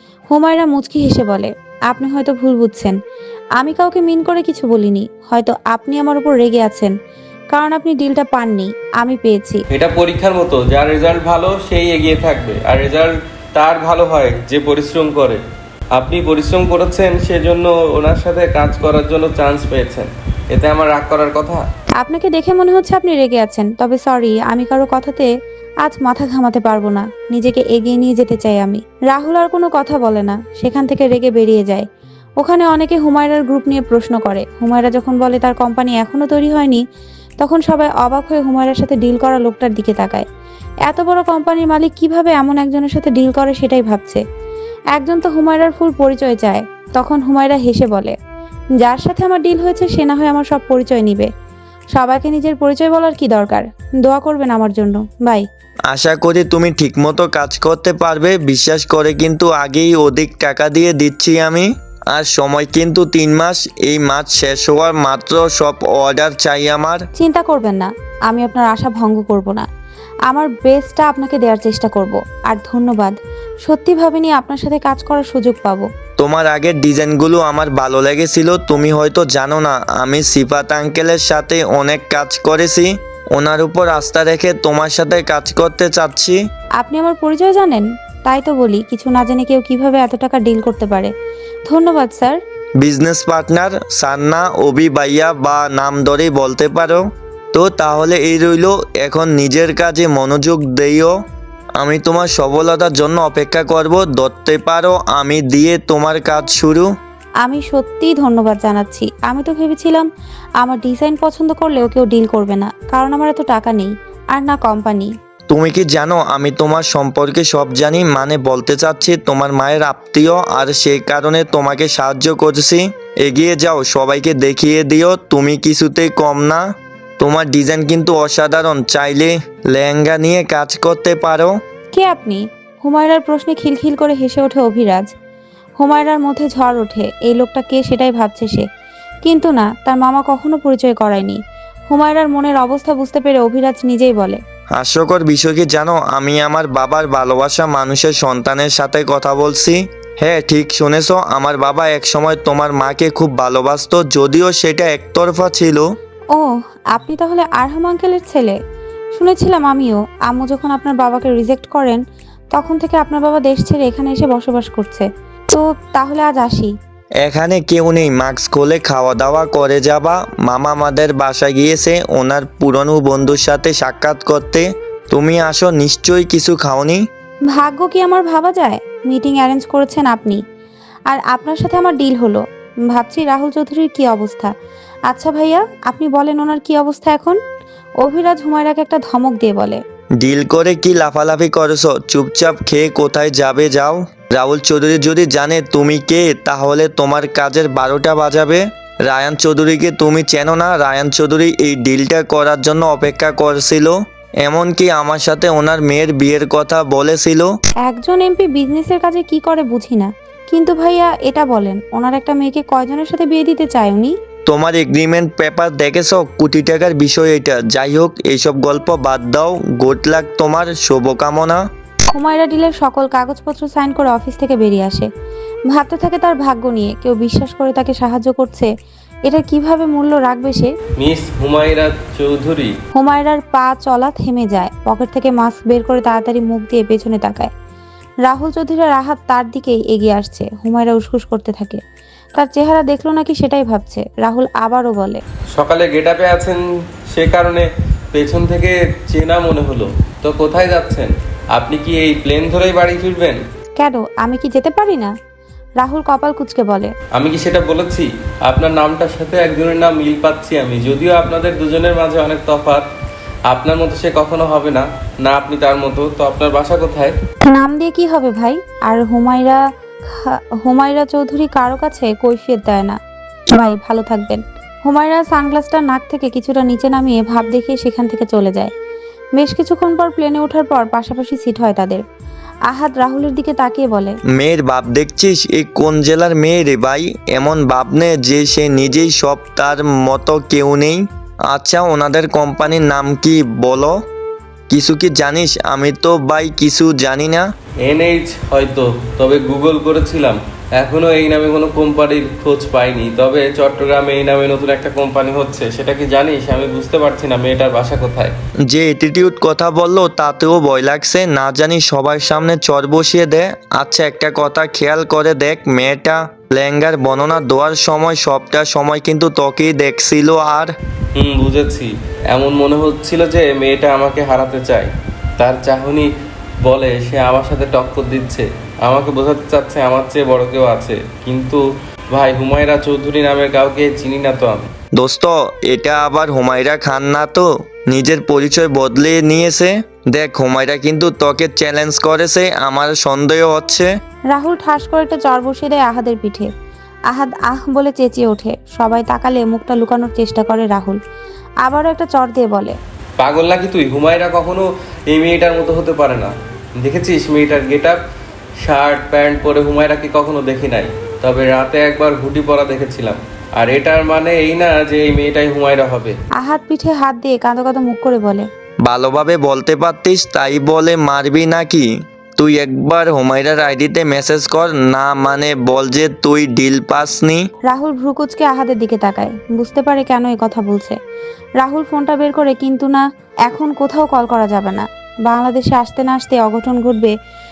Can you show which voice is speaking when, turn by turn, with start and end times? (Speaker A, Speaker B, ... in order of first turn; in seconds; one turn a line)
Speaker A: 0.3-3.0
Speaker A: 3.6-6.9
Speaker A: 7.5-9.6
Speaker B: 9.7-15.4
Speaker B: 15.9-21.6
Speaker A: 22.0-25.3
Speaker A: 25.8-31.9
Speaker A: 32.4-36.8
Speaker A: 37.4-40.3
Speaker A: 40.9-44.2
Speaker A: 44.9-48.1
Speaker A: 48.8-51.3
Speaker A: 52.0-55.4
Speaker C: 55.9-67.0
Speaker A: 67.2-69.7
Speaker A: 70.3-73.2
Speaker A: 73.7-75.9
Speaker C: 76.2-86.4
Speaker A: 86.8-91.1
Speaker A: 91.7-92.4
Speaker C: 92.8-101.1
Speaker C: 101.8-106.9
Speaker A: 107.4-110.1
Speaker A: 110.6-115.1
Speaker C: 115.5-126.7
Speaker C: 127.2-131.6
Speaker A: 131.9-135.1
Speaker A: 135.8-138.7
Speaker A: 139.2-144.4
Speaker C: 144.8-155.9
Speaker A: 156.3-158.6
Speaker A: 159.2-162.0
Speaker A: 162.5-166.7
Speaker C: 167.2-177.0
Speaker A: 177.5-180.4
Speaker A: 181.1-184.5
Speaker A: 185.1-187.4
Speaker A: 188.0-189.8
Speaker C: 190.2-207.5
Speaker A: 207.9-214.1
Speaker C: 214.5-221.6
Speaker A: 222.1-225.1
Speaker A: 225.7-228.7
Speaker A: 229.3-230.7
Speaker B: 231.0-232.7
Speaker A: 233.0-237.5
Speaker A: 238.3-241.8
Speaker A: 242.4-245.2
Speaker B: 245.6-246.6
Speaker B: 247.1-253.4
Speaker A: 253.8-255.1
Speaker A: 255.8-256.9
Speaker B: 257.1-262.9
Speaker B: 263.5-267.1
Speaker A: 267.5-269.6
Speaker A: 270.1-273.0
Speaker A: 273.5-278.7
Speaker A: 279.4-282.0
Speaker A: 282.7-284.2
Speaker C: 284.3-294.0
Speaker C: 294.7-297.5
Speaker B: 297.8-308.3
Speaker C: 308.7-320.7
Speaker B: 321.1-326.1
Speaker B: 326.6-331.6
Speaker B: 332.1-334.7
Speaker C: 335.0-343.9
Speaker A: 344.3-346.5
Speaker A: 347.1-351.0
Speaker A: 351.6-352.8
Speaker B: 353.2-358.0
Speaker B: 358.6-366.2
Speaker A: 366.4-368.5
Speaker C: 368.9-377.5
Speaker A: 377.7-381.0
Speaker A: 381.6-387.1